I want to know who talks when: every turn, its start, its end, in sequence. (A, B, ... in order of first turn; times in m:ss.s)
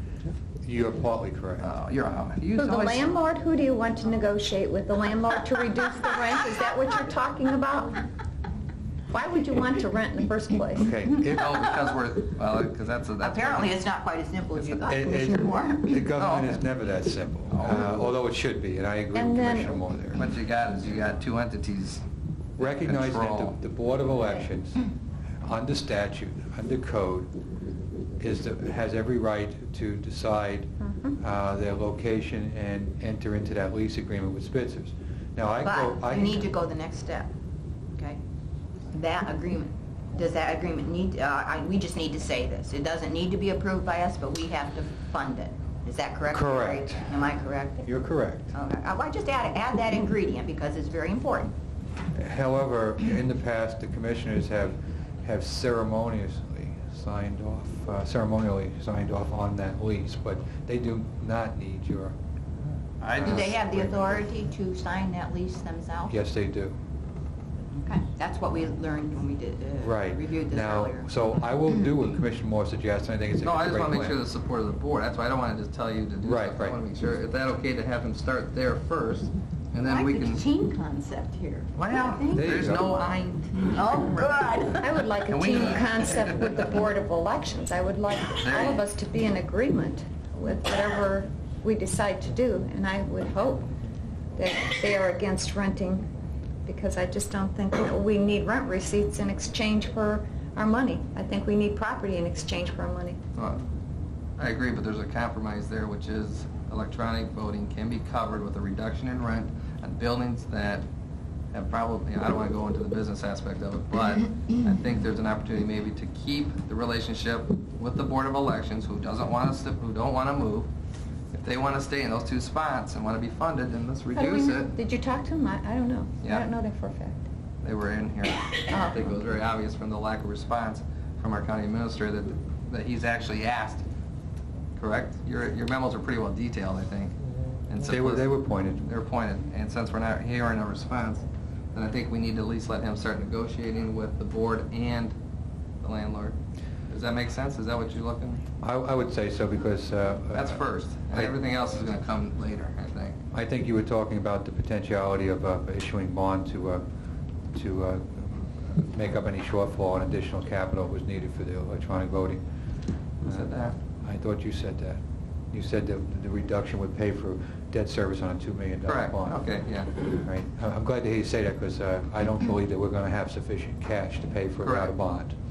0:00.6-0:01.7 A
0:01.6-0:03.1 B
0:02.6-0:08.0 C
0:09.1-0:10.9 C
0:10.8-0:11.7 A
0:11.3-0:13.8 B
0:13.2-0:16.0 D
0:14.9-0:20.2 A
0:16.2-0:16.6 B
0:17.5-0:17.9 B
0:19.1-0:19.7 C
0:20.1-0:22.0 B
0:22.6-0:24.9 A
0:22.6-0:23.6 B
0:25.4-0:27.3 A
0:28.2-0:36.5 A
0:30.8-0:31.1 C
0:35.6-0:37.3 D
0:38.9-0:47.8 D
0:46.3-0:47.1 A
0:47.8-0:48.5 A
0:48.5-0:51.5 D
0:52.1-1:02.1 A
1:03.0-1:03.6 B
1:03.1-1:04.2 A
1:03.2-1:06.1 D
1:06.1-1:06.8 A
1:07.7-1:11.1 D
1:09.8-1:14.2 A
1:13.4-1:20.4 B
1:16.2-1:16.8 A
1:19.8-1:22.7 D
1:21.7-1:23.9 B
1:22.3-1:22.9 A
1:23.7-1:24.8 D
1:24.8-1:33.7 C
1:25.3-1:26.6 B
1:28.3-1:28.8 B
1:34.4-1:36.1 C
1:36.6-1:43.2 C
1:43.3-1:43.6 B
1:44.4-1:50.8 B
1:51.5-2:00.7 B
2:01.3-2:04.7 B
2:04.1-2:07.2 C
2:06.2-2:06.5 B
2:07.6-2:13.8 B
2:08.7-2:09.0 C
2:14.8-2:17.2 B
2:17.7-2:25.2 B
2:17.9-2:18.9 A
2:25.8-2:28.4 B
2:28.6-2:31.3 A
2:30.3-2:33.2 B
2:33.3-2:36.8 A
2:37.5-2:42.4 A
2:43.2-2:43.8 B
2:43.2-2:55.3 A
2:48.8-2:49.9 B
2:54.6-2:54.9 B